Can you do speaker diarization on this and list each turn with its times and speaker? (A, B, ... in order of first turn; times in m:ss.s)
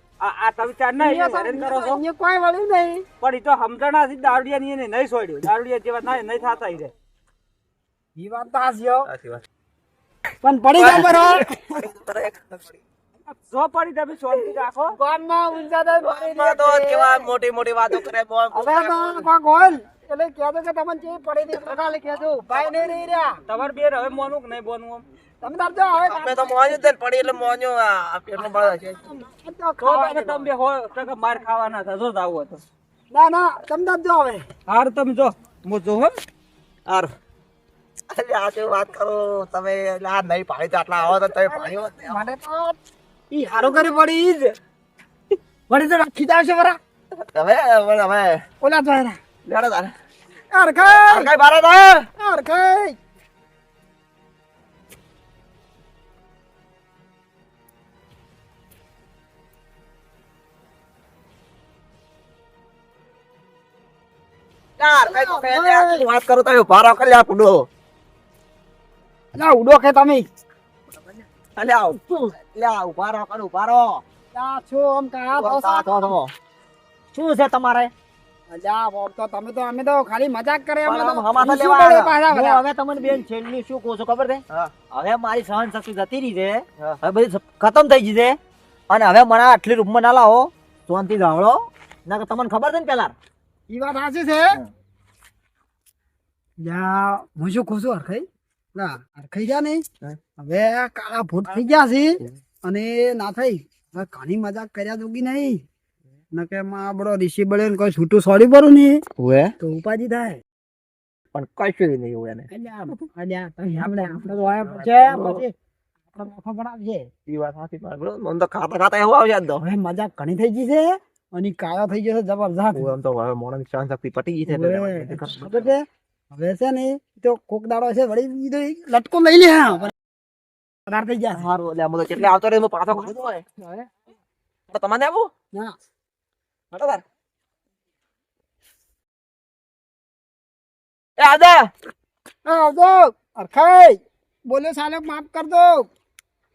0:00.2-0:02.0 A
0:01.0-0:03.1 B
0:03.2-0:06.9 A
0:08.2-0:09.1 B
0:09.1-0:09.4 C
0:10.4-0:11.8 B
0:10.8-0:12.8 C
0:13.3-0:15.0 A
0:14.9-0:17.3 B
0:16.0-0:19.3 C
0:18.5-0:23.4 B
0:23.5-0:25.0 A
0:25.4-0:26.8 B
0:26.1-0:29.2 C
0:28.4-0:30.5 B
0:29.8-0:32.6 A
0:33.1-0:34.5 B
0:34.7-0:36.2 A
0:38.1-0:42.2 C
0:41.4-0:42.8 B
0:43.3-0:44.6 B
0:45.7-0:46.8 B
0:47.2-0:48.4 C
0:48.6-0:49.2 B
0:49.4-0:49.9 C
0:50.5-0:51.3 B
0:50.8-0:52.1 C
0:52.2-0:53.0 B
1:04.8-1:07.7 C
1:05.1-1:06.0 B
1:09.4-1:10.2 B
1:11.6-1:14.0 C
1:14.3-1:16.1 B
1:15.4-1:16.3 C
1:15.6-1:16.1 D
1:17.1-1:17.9 D
1:18.5-1:22.6 B
1:20.9-1:28.4 D
1:28.9-1:33.1 D
1:33.7-1:34.6 B
1:36.6-1:39.8 B
1:40.4-1:45.6 B
1:46.3-1:49.0 B
1:49.2-1:49.5 C
1:49.6-1:50.4 B
1:51.3-1:52.5 C
1:52.5-1:55.5 B
1:54.8-1:55.4 C
1:56.1-1:57.1 B
1:57.3-1:59.6 C
1:59.6-2:02.9 B
2:02.8-2:05.7 C
2:04.5-2:09.9 B
2:10.9-2:11.5 B
2:11.3-2:13.6 C
2:14.7-2:15.3 C
2:16.7-2:17.0 C
2:21.2-2:21.7 C
2:22.4-2:25.9 B